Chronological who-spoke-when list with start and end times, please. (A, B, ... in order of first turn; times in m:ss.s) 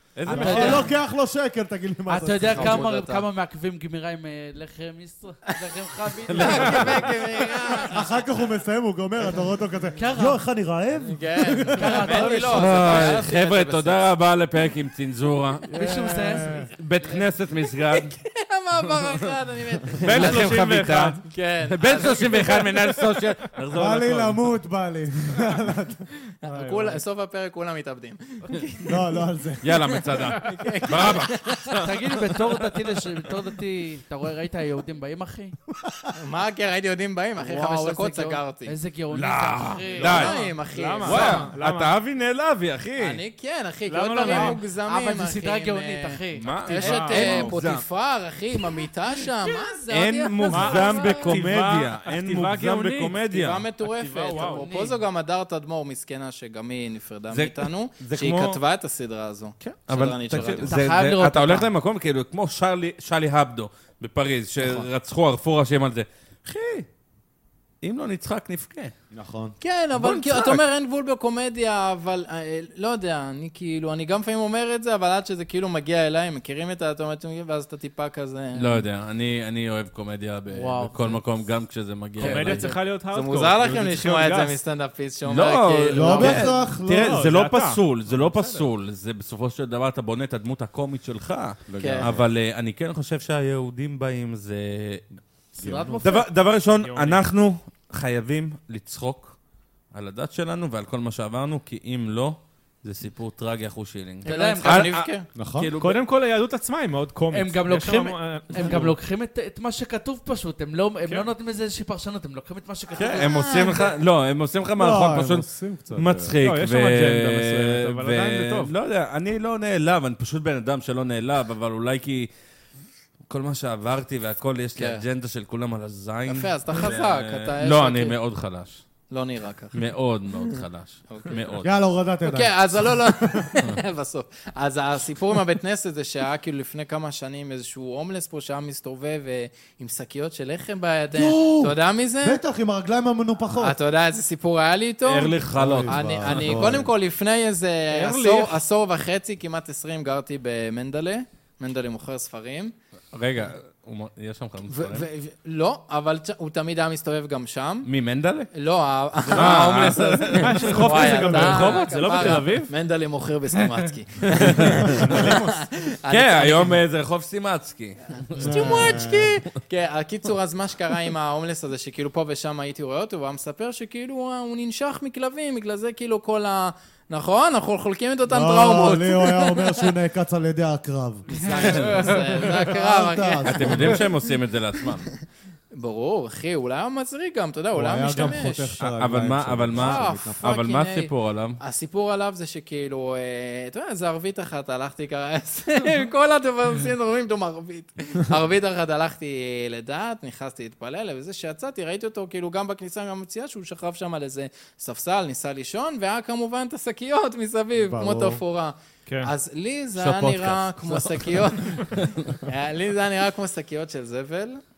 0:00.2-0:00.9 A
0:00.3-0:02.8 B
0:00.3-0:00.9 C
0:02.1-0:07.1 C
0:02.4-0:03.2 D
0:06.3-0:07.0 A
0:06.3-0:08.2 D
0:07.9-0:12.3 B
0:10.0-0:10.4 C
0:11.0-0:14.0 D
0:11.7-0:13.0 C
0:12.5-0:15.7 A
0:15.7-0:16.7 B
0:15.7-0:16.6 C
0:16.5-0:18.1 A
0:17.9-0:22.8 D
0:20.0-0:24.4 A
0:20.1-0:21.2 E
0:23.7-0:27.0 B
0:26.4-0:29.2 D
0:28.8-0:29.9 B
0:29.6-0:31.9 A
0:30.2-0:31.8 D
0:31.8-0:35.6 C
0:36.1-0:38.7 D
0:37.4-0:40.3 C
0:39.1-0:40.5 A
0:40.0-0:41.5 D
0:40.3-0:42.0 E
0:41.0-0:43.2 A
0:43.0-0:51.4 D
0:43.9-0:44.6 E
0:44.2-0:47.5 C
0:46.4-0:47.8 A
0:46.4-0:47.5 E
0:49.9-0:54.6 A
0:50.5-0:53.2 E
0:53.3-1:00.7 D
0:54.0-0:54.8 E
0:57.3-0:58.6 A
0:59.6-1:06.9 A
1:00.7-1:01.7 C
1:04.6-1:04.9 D
1:07.8-1:08.9 A
1:09.1-1:09.6 B
1:09.6-1:18.8 D
1:10.0-1:10.6 A
1:18.6-1:22.7 A
1:20.5-1:21.2 C
1:22.2-1:22.8 C
1:22.2-1:24.6 E
1:23.1-1:26.5 D
1:25.3-1:35.1 A
1:25.9-1:27.2 B
1:26.4-1:28.6 E
1:31.7-1:32.3 B
1:31.8-1:32.1 D
1:35.5-1:36.2 C
1:35.6-1:36.0 B
1:36.0-1:39.4 A
1:36.8-1:37.3 E
1:39.9-1:46.0 A
1:44.2-1:45.3 D
1:44.2-1:44.9 C
1:45.3-1:45.7 B
1:45.8-1:49.0 E
1:47.3-1:53.4 C
1:52.9-2:02.3 A
1:53.0-1:54.0 D
1:54.8-1:56.3 B
1:56.4-1:58.7 E
2:03.3-2:08.8 A
2:04.8-2:05.0 D
2:06.3-2:08.2 D
2:09.1-2:09.8 D
2:09.7-2:11.7 A
2:10.4-2:11.6 D
2:11.6-2:13.5 B
2:12.2-2:22.4 D
2:21.1-2:23.8 B
2:23.6-2:32.7 D
2:25.0-2:26.9 A
2:25.5-2:26.9 B
2:28.0-2:28.4 E
2:33.1-2:35.0 A
2:34.7-2:37.9 D
2:37.8-2:38.5 A
2:38.5-2:46.8 D
2:39.3-2:41.8 A
2:40.3-2:42.7 E
2:44.4-2:45.4 A
2:44.7-2:45.6 E
2:46.1-2:49.0 A
2:48.3-2:59.9 D
2:48.4-2:49.3 B
2:58.3-3:04.0 B
3:01.3-3:04.2 D
3:01.6-3:02.0 A
3:03.4-3:05.1 A
3:05.7-3:08.8 D
3:07.7-3:10.4 B
3:08.1-3:11.6 A
3:09.7-3:34.6 D
3:27.8-3:28.4 B
3:29.1-3:29.3 E
3:30.0-3:32.4 A